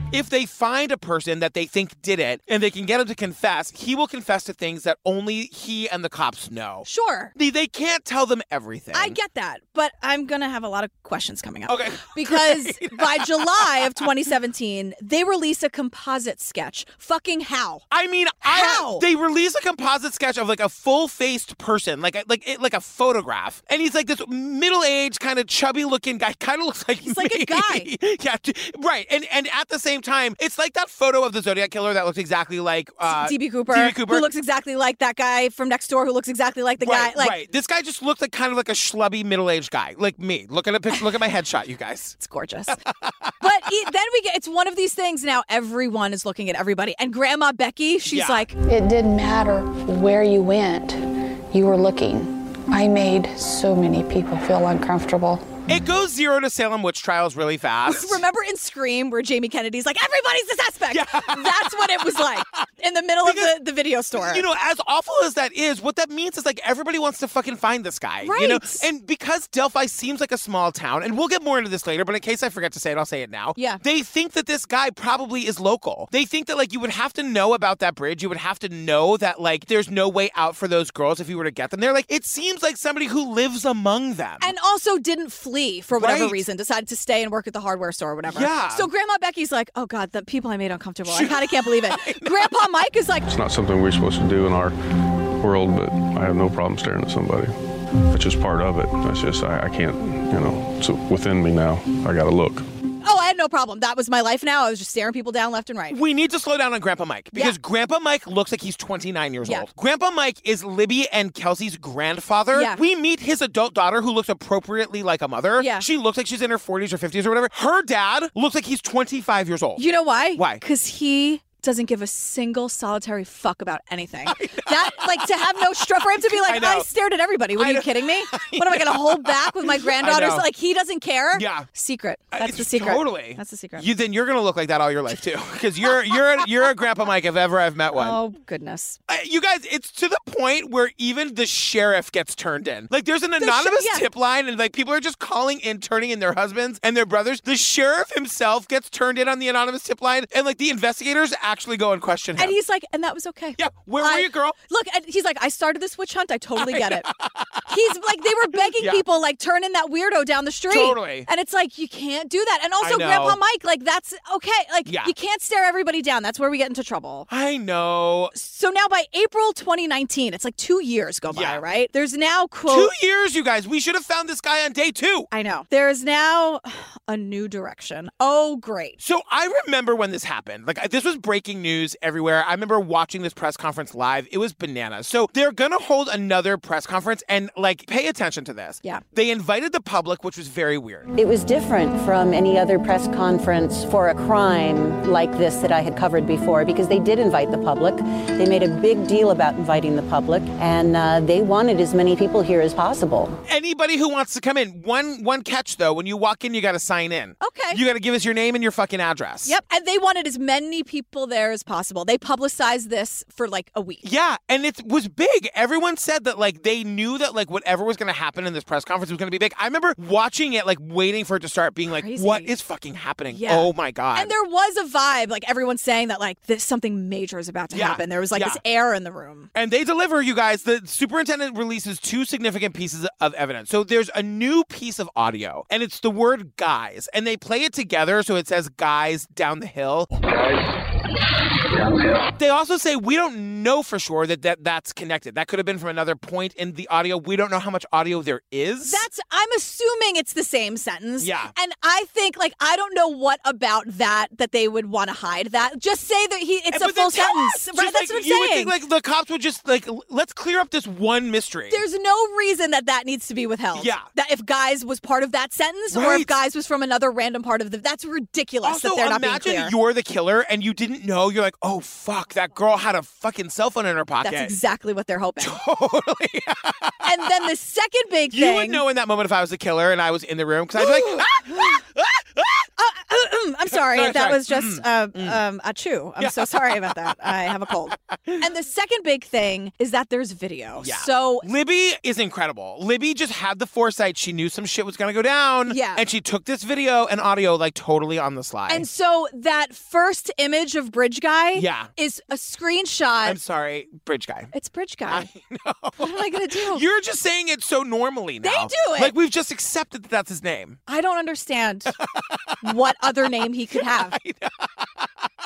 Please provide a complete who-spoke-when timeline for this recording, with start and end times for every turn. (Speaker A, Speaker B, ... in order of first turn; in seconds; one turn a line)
Speaker A: 0.1-9.2
Speaker B: 6.8-7.3
Speaker B: 8.9-17.8
Speaker A: 11.7-14.1
Speaker A: 17.9-34.2
Speaker B: 18.4-19.0
Speaker B: 27.0-27.9
Speaker B: 33.0-37.4
Speaker A: 36.8-42.1
Speaker B: 42.2-42.8
Speaker A: 42.9-43.4
Speaker B: 43.4-48.5
Speaker A: 48.1-48.4
Speaker C: 48.6-55.5
Speaker A: 55.7-58.2
Speaker B: 57.9-64.4
Speaker A: 60.9-62.4
Speaker A: 63.2-63.5
Speaker A: 64.2-84.5
Speaker B: 68.2-68.8
Speaker B: 73.5-73.8
Speaker B: 84.4-93.3
Speaker A: 86.0-86.4
Speaker A: 88.3-88.9
Speaker A: 91.1-92.5
Speaker D: 93.3-94.7
Speaker D: 95.4-97.5
Speaker D: 98.1-102.6
Speaker B: 103.0-106.0
Speaker A: 105.9-119.8
Speaker B: 112.5-112.8
Speaker B: 115.6-115.9
Speaker B: 119.8-133.9
Speaker A: 120.3-120.6
Speaker A: 124.3-125.2
Speaker A: 126.3-126.9
Speaker A: 127.6-130.4
Speaker A: 131.3-131.7
Speaker A: 132.3-138.2
Speaker B: 135.8-136.7
Speaker B: 137.9-139.0
Speaker A: 139.1-152.5
Speaker B: 143.4-144.0
Speaker B: 152.4-157.1
Speaker A: 153.6-154.5
Speaker A: 156.6-157.7
Speaker B: 157.7-167.3
Speaker A: 158.8-159.0
Speaker A: 160.7-161.3
Speaker A: 162.8-163.4
Speaker A: 164.8-165.1
Speaker A: 167.3-168.3
Speaker B: 168.3-172.9
Speaker A: 171.3-171.6
Speaker A: 172.7-175.3
Speaker B: 175.3-179.0
Speaker A: 179.0-191.1
Speaker E: 191.1-203.4
Speaker A: 203.4-209.5
Speaker B: 207.4-207.8
Speaker B: 209.4-214.0
Speaker A: 214.0-224.3
Speaker B: 221.9-222.5
Speaker B: 223.3-229.5
Speaker A: 227.7-228.6
Speaker A: 229.5-240.1
Speaker A: 242.3-249.0
Speaker B: 248.8-258.7
Speaker A: 251.2-251.5
Speaker A: 256.7-261.8
Speaker B: 261.7-269.7
Speaker A: 263.7-264.1
Speaker A: 265.9-266.3
Speaker A: 268.6-274.5
Speaker B: 274.2-275.6
Speaker A: 275.4-277.1
Speaker B: 277.0-278.8
Speaker A: 278.3-282.6
Speaker B: 280.8-281.8
Speaker B: 282.8-291.5
Speaker A: 283.7-285.4
Speaker A: 286.2-288.4
Speaker A: 290.8-298.9
Speaker B: 295.7-296.0
Speaker B: 298.7-303.4
Speaker A: 301.5-301.9
Speaker A: 303.2-304.5
Speaker B: 304.5-305.3
Speaker A: 305.1-306.1
Speaker B: 306.0-306.8
Speaker A: 306.7-310.8
Speaker B: 308.4-309.1
Speaker B: 310.9-311.9
Speaker A: 311.9-312.7
Speaker B: 312.6-314.1
Speaker A: 313.8-315.1